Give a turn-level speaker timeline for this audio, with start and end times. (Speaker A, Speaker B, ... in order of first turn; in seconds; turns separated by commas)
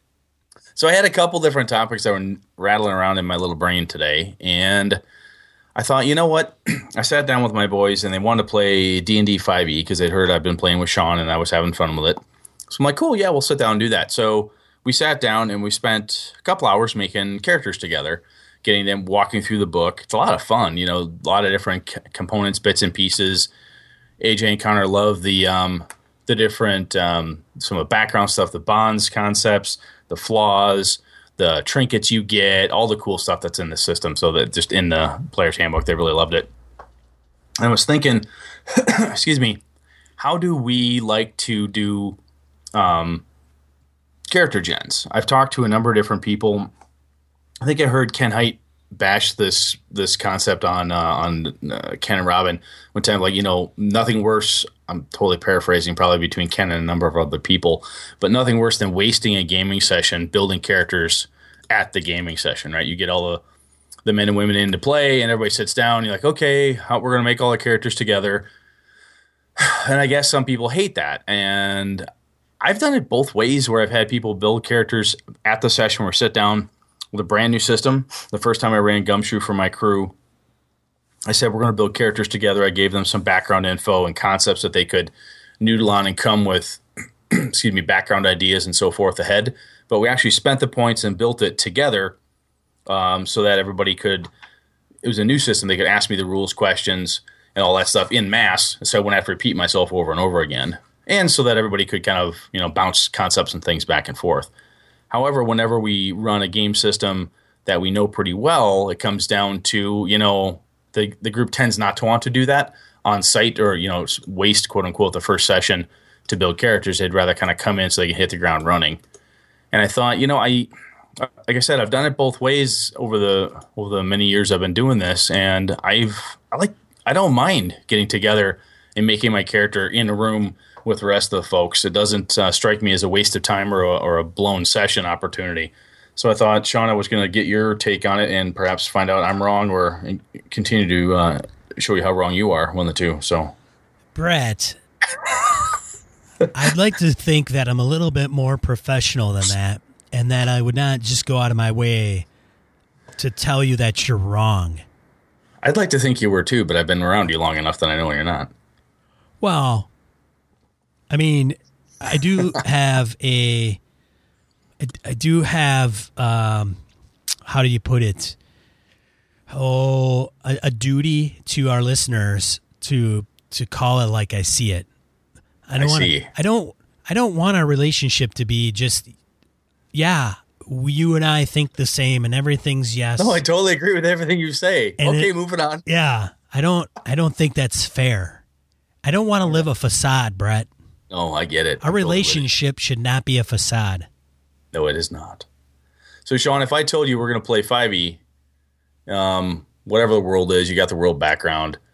Speaker A: 0.8-5.0, Speaker A: 5.8-23.5, Speaker A: 24.2-36.5, Speaker A: 37.6-39.6, Speaker A: 40.2-42.2, Speaker A: 42.8-43.2, Speaker A: 44.3-46.7, Speaker A: 47.6-63.4, Speaker A: 64.0-68.5, Speaker A: 69.6-72.0, Speaker A: 72.6-80.2, Speaker A: 81.3-92.2, Speaker A: 92.9-94.3, Speaker A: 95.0-104.5, Speaker A: 105.1-119.0, Speaker A: 119.7-143.5, Speaker B: 144.2-144.8, Speaker B: 146.5-152.3, Speaker B: 153.2-154.8, Speaker A: 155.6-158.5, Speaker B: 159.4-159.9, Speaker B: 161.1-163.8, Speaker B: 164.8-166.8, Speaker B: 167.4-168.4, Speaker B: 169.5-174.9, Speaker B: 175.7-179.1, Speaker A: 175.8-176.3, Speaker B: 179.9-183.4, Speaker A: 183.2-185.8, Speaker B: 185.0-185.3, Speaker B: 185.9-188.4, Speaker B: 189.0-190.7, Speaker A: 191.1-192.5, Speaker B: 191.8-194.1, Speaker A: 194.7-195.5, Speaker A: 196.2-198.2, Speaker A: 199.1-201.8